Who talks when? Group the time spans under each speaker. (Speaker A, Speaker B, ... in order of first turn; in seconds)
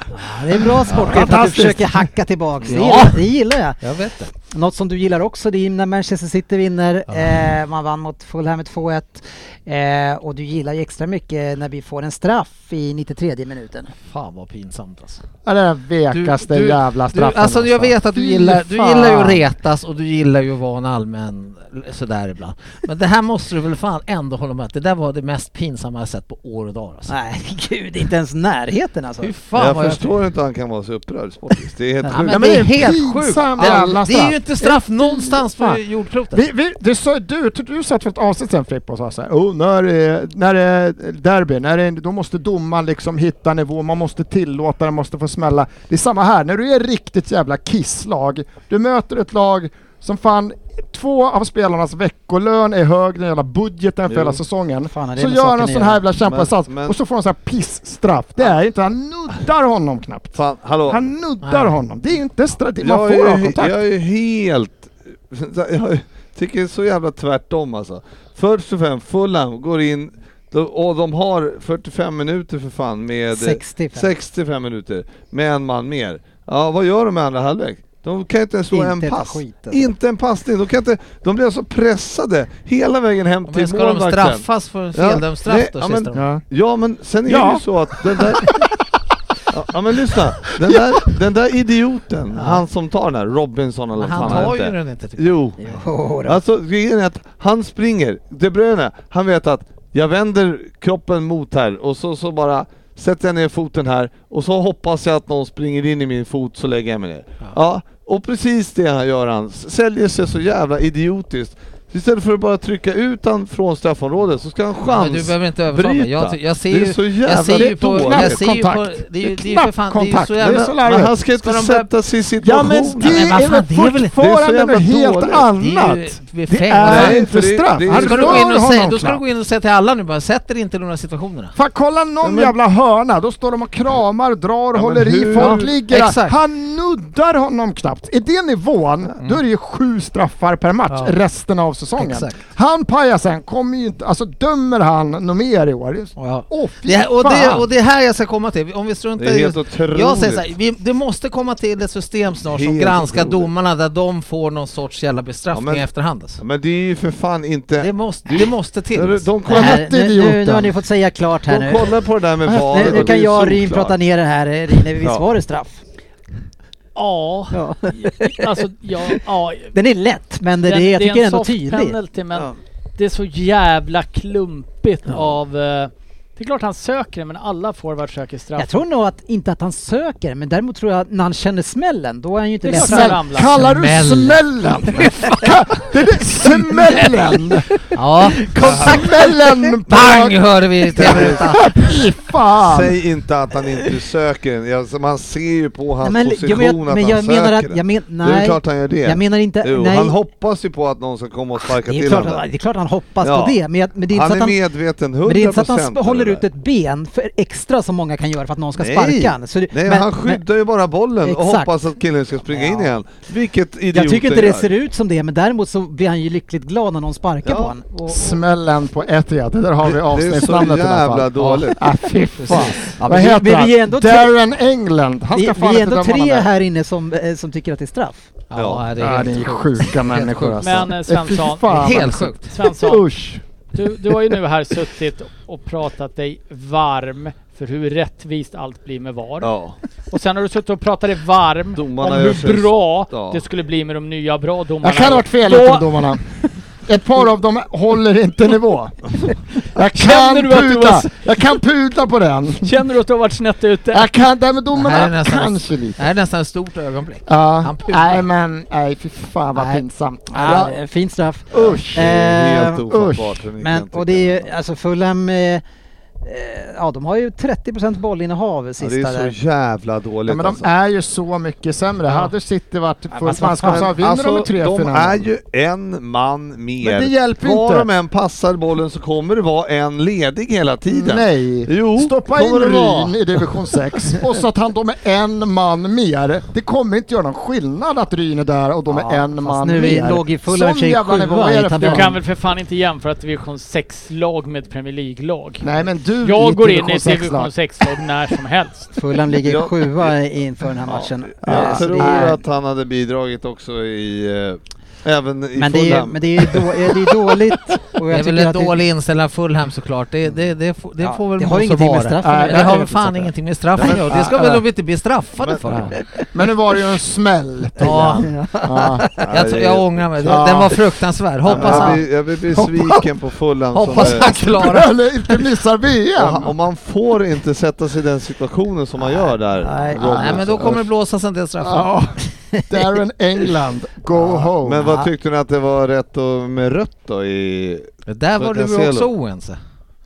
Speaker A: 0.1-13.9, 27.1-29.3, 33.6-33.8, 54.8-56.0, 73.3-74.1, 78.7-79.9, 95.6-96.4, 159.5-161.9, 162.4-165.8, 167.5-169.2, 169.7-172.5, 178.6-183.2, 188.6-188.9, 196.0-200.2, 201.7-204.6, 205.2-210.4, 211.2-211.7, 212.5-212.9, 213.9-218.4, 222.9-224.3, 225.3-228.3, 260.3-262.8, 263.6-265.6, 266.2-269.4, 273.1-273.9, 288.9-292.2, 298.9-302.4, 305.6-308.8, 311.0-312.8, 315.9-316.3, 318.1-319.3, 329.6-330.2, 332.5-332.9
Speaker B: 0.8-2.1, 15.4-19.4, 32.3-63.8, 86.1-86.4, 87.3-88.7, 90.4-91.1, 117.5-121.2, 122.4-129.2, 131.6-147.7, 159.5-160.8, 162.8-163.1, 182.7-187.9, 188.5-193.0, 218.1-226.5, 229.0-233.4, 244.8-246.3, 246.9-252.7, 253.9-256.1, 257.3-260.8, 261.5-262.2, 262.9-263.4, 270.3-275.3, 276.8-277.9, 280.9-292.2, 295.6-297.5, 301.4-302.4, 312.2-314.6, 315.7-319.1, 320.2-320.9, 321.5-322.0, 322.6-322.9, 323.9-326.5, 329.9-330.8, 331.6-335.0
Speaker C: 2.7-3.3, 3.8-4.3, 14.1-15.2, 16.1-27.1, 29.2-30.1, 32.1-36.4, 61.4-61.8, 83.5-86.3, 94.0-95.5, 114.8-121.9, 123.0-124.2, 125.6-127.3, 127.8-131.5, 135.3-136.4, 140.9-141.2, 142.0-142.4, 146.2-156.4, 157.8-159.3, 183.4-184.4, 187.9-189.2, 189.9-192.1, 221.4-221.7, 222.4-222.9, 228.5-230.9, 231.7-232.5, 254.7-258.2, 259.5-259.8, 308.1-316.0, 317.8-318.4, 319.3-322.0, 323.7-324.9, 330.0-332.0, 338.1-339.6
Speaker D: 29.6-32.7, 54.1-54.4, 56.2-57.0, 60.3-61.1, 62.8-88.6, 89.5-95.6, 96.2-118.5, 120.8-123.4, 124.2-125.5, 126.8-128.5, 132.2-132.6, 134.7-135.8, 149.2-150.5, 152.4-153.5, 155.5-155.9, 156.4-159.8, 161.5-164.0, 188.6-189.1, 190.9-191.5, 192.6-202.4, 203.2-203.6, 204.1-206.4, 208.8-214.7, 217.4-217.7, 219.8-221.9, 222.5-222.8, 228.5-228.9, 239.4-239.8, 241.8-243.4, 261.5-264.5, 268.8-270.7, 273.6-283.5, 299.4-300.1, 300.9-307.2, 315.4-315.7, 319.2-320.4, 321.4-324.4, 326.2-330.8, 334.1-339.1
Speaker E: 166.9-169.7, 170.7-178.8, 182.7-183.5, 230.6-233.1, 233.7-239.5, 240.1-246.1, 249.8-251.4, 252.6-254.1, 291.8-298.9